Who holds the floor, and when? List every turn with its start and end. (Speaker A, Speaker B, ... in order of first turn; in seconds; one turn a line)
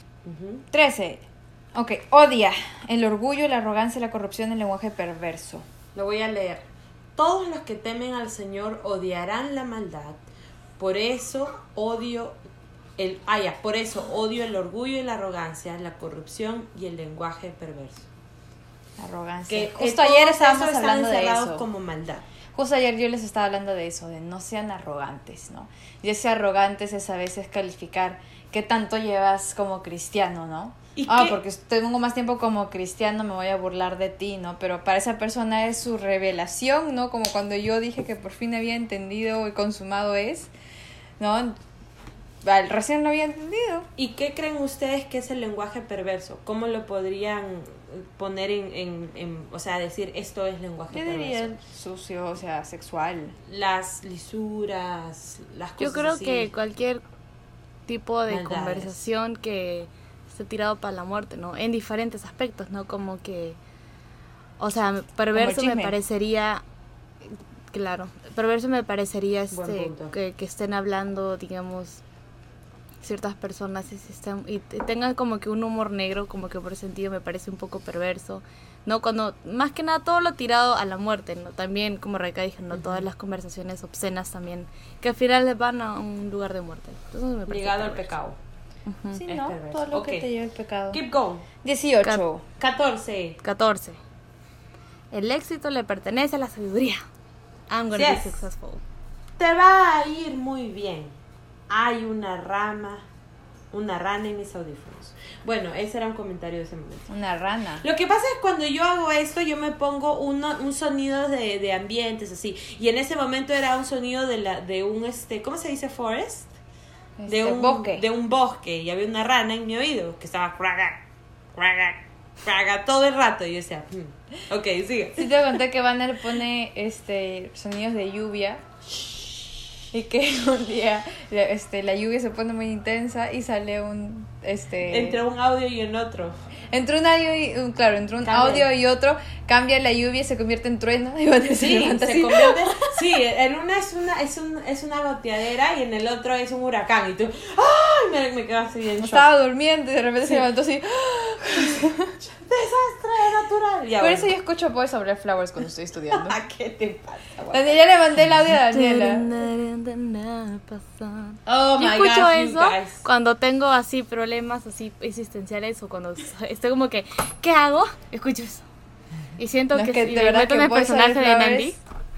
Speaker A: 0.2-0.7
Speaker B: 0.7-5.7
Speaker A: 6.0-10.2
Speaker A: 10.8-12.4
Speaker A: 13.0-18.1
Speaker B: 19.0-21.7
Speaker A: 19.5-22.3
Speaker B: 22.5-40.5
Speaker A: 31.0-31.4
Speaker B: 41.2-41.6
Speaker B: 42.4-43.9
Speaker A: 44.0-51.6
Speaker B: 50.9-53.4
Speaker A: 53.5-56.5
Speaker C: 55.8-57.0
Speaker C: 57.9-63.6
Speaker A: 58.3-59.0
Speaker C: 64.6-66.6
Speaker B: 65.3-66.0
Speaker C: 67.7-72.0
Speaker A: 69.5-70.2
Speaker C: 73.0-88.1
Speaker A: 82.7-83.1
Speaker A: 87.5-88.4
Speaker C: 88.9-89.2
Speaker B: 89.1-91.0
Speaker A: 89.2-90.3
Speaker A: 90.9-91.5
Speaker B: 91.6-92.4
Speaker A: 92.6-93.4
Speaker C: 93.4-94.0
Speaker C: 95.1-97.0
Speaker C: 97.7-98.8
Speaker A: 97.9-98.4
Speaker A: 99.4-101.1
Speaker A: 101.7-103.0
Speaker A: 103.7-107.1
Speaker B: 107.1-107.8
Speaker A: 107.8-116.5
Speaker B: 117.2-118.0
Speaker A: 117.3-121.0
Speaker A: 121.5-125.4
Speaker B: 125.2-128.6
Speaker B: 129.9-135.2
Speaker A: 134.9-136.4
Speaker B: 136.7-143.1
Speaker A: 138.2-138.7
Speaker A: 141.5-149.3
Speaker B: 149.0-152.2
Speaker A: 152.2-154.3
Speaker B: 154.0-156.4
Speaker A: 156.1-157.8
Speaker B: 157.5-159.4
Speaker C: 158.5-168.7
Speaker A: 161.5-163.1
Speaker C: 169.4-171.8
Speaker B: 169.7-171.8